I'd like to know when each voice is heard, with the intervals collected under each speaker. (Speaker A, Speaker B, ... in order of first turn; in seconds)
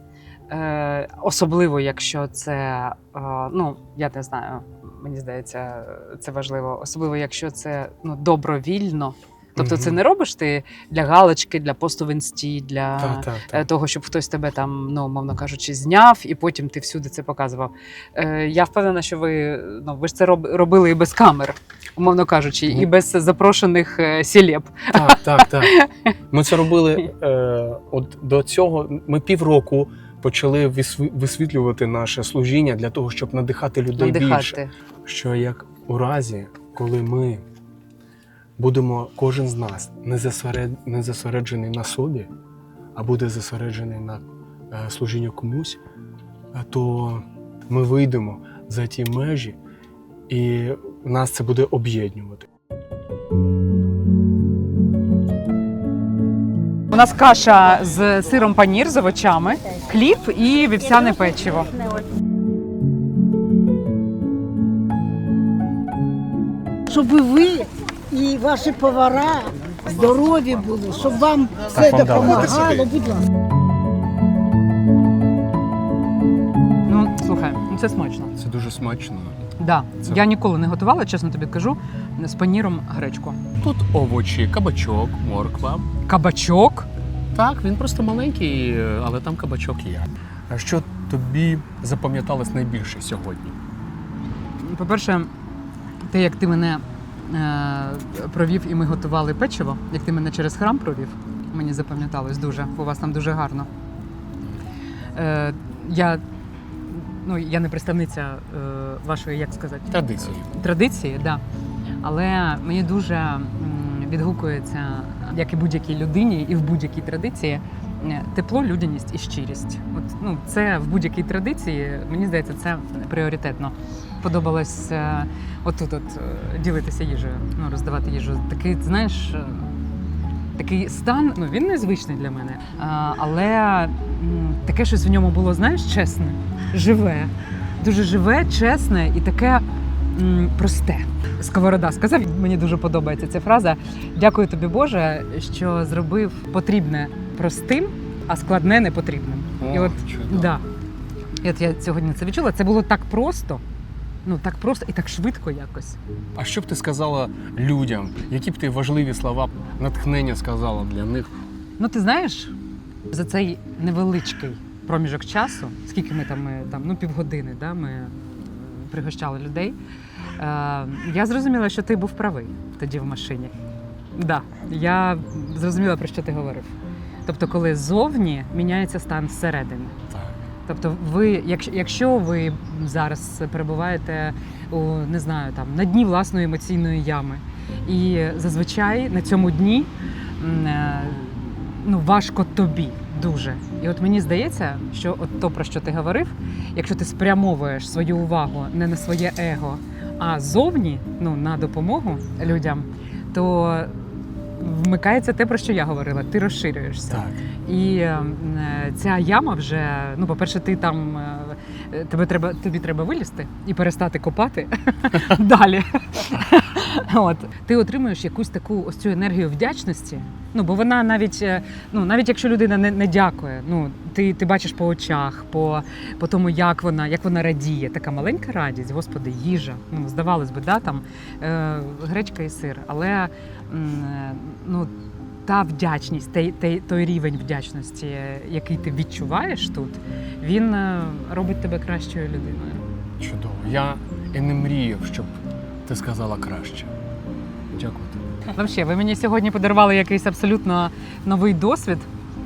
Speaker A: 0.5-26.1, 34.0-34.7, 56.9-61.7, 76.9-78.3, 79.6-83.4, 86.1-86.9, 94.6-95.3, 96.0-103.7, 105.2-106.2, 106.9-111.4, 112.0-129.7, 130.6-150.6, 151.4-153.6, 154.3-156.0, 161.8-162.5, 163.1-169.8, 170.4-173.5, 174.2-176.7, 177.3-180.0, 180.7-234.9, 235.5-242.8, 248.6-252.1
Speaker B: 9.6-10.0, 13.0-13.7, 24.9-25.8, 26.3-37.4, 38.6-42.3, 43.0-45.8, 46.5-49.6, 50.3-52.5, 71.7-72.9, 78.4-79.4, 83.6-85.9, 87.3-93.6, 109.9-110.5, 149.6-150.6, 156.4-161.3, 180.1-180.4, 207.1-207.4, 243.2-246.9, 247.7-248.3
Speaker C: 66.9-73.2